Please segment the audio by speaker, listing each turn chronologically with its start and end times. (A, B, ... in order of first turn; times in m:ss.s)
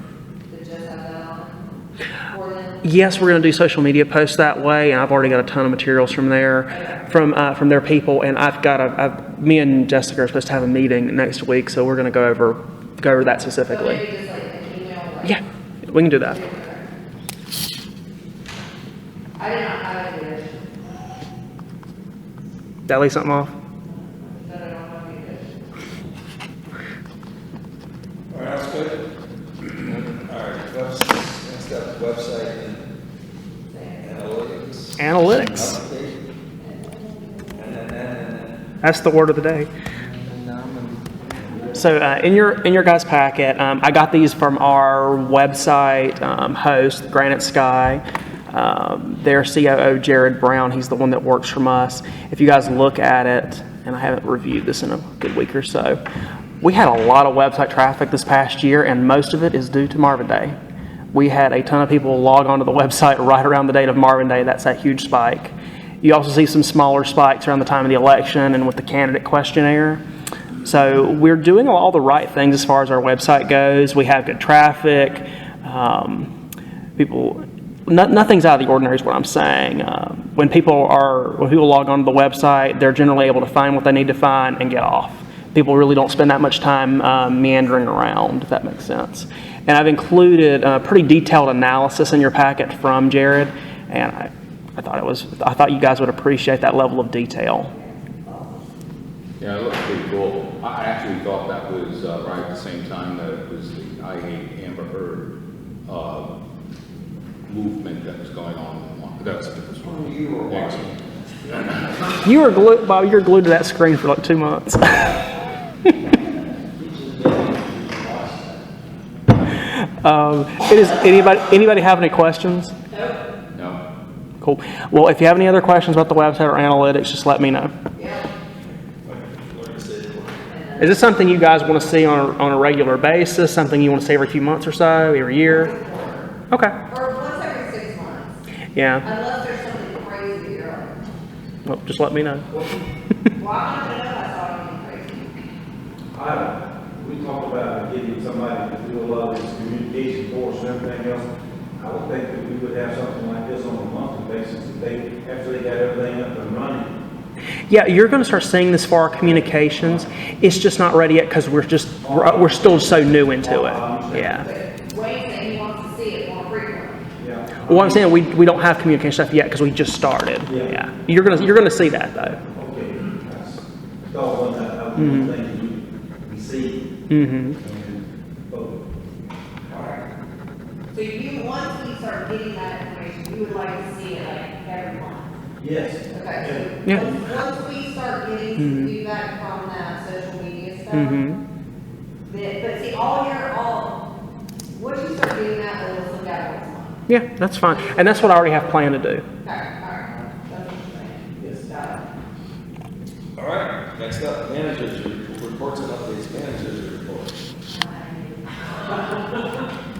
0:00.5-0:01.6 A
0:02.3-0:02.8 A
0:02.8-0:14.0 B
0:06.7-0:07.0 A
0:13.7-0:15.4 A
0:15.2-0:16.4 B
0:16.1-0:16.9 A
0:19.4-0:20.7 A
0:22.9-0:23.5 B
0:23.8-0:25.8 A
0:28.3-0:29.0 C
0:29.8-0:32.8 C
0:33.7-0:34.1 A
0:34.0-0:36.3 C
0:35.0-0:35.8 B
0:36.6-0:37.9 A
0:37.6-0:38.6 C
0:38.8-0:39.7 B
0:41.7-0:56.0 B
0:56.6-1:00.6 B
1:01.1-1:10.0 B
1:10.6-1:16.3 B
1:17.0-1:37.7 B
1:37.7-1:38.6 A
1:39.4-1:45.3 D
1:45.9-1:46.3 D
1:47.5-1:50.9 D
1:49.8-1:51.6 C
1:51.5-1:51.9 D
1:52.2-1:55.2 B
1:56.8-1:58.6 C
1:59.6-2:02.7 B
2:02.9-2:03.2 A
2:03.6-2:03.8 D
2:04.4-2:07.7 B
2:08.0-2:08.3 A
2:08.7-2:10.4 C
2:10.5-2:10.9 A
2:10.8-2:15.7 B
2:15.4-2:16.3 A
2:16.5-2:16.8 B
2:16.9-2:18.4 A
2:18.8-2:19.0 B
2:19.0-2:20.9 A
2:21.6-2:22.5 B
2:23.4-2:25.4 A
2:26.1-2:36.9 E
2:37.7-2:44.4 B
2:42.0-2:44.5 E
2:44.4-2:47.1 A
2:47.2-2:48.1 E
2:47.7-2:52.4 B
2:50.5-2:50.8 E
2:52.5-2:56.8 E
2:55.0-2:55.3 B
2:57.1-2:57.6 B
2:57.6-2:58.8 E
2:59.7-3:00.0 C
3:00.9-3:05.3 A
3:05.6-3:07.0 E
3:06.1-3:11.2 A
3:08.6-3:08.9 B
3:10.9-3:11.4 B
3:12.2-3:14.0 A
3:14.7-3:17.0 A
3:17.1-3:19.2 B
3:17.7-3:18.5 A
3:19.4-3:22.0 A
3:23.4-3:27.4 C
3:27.7-3:29.2 A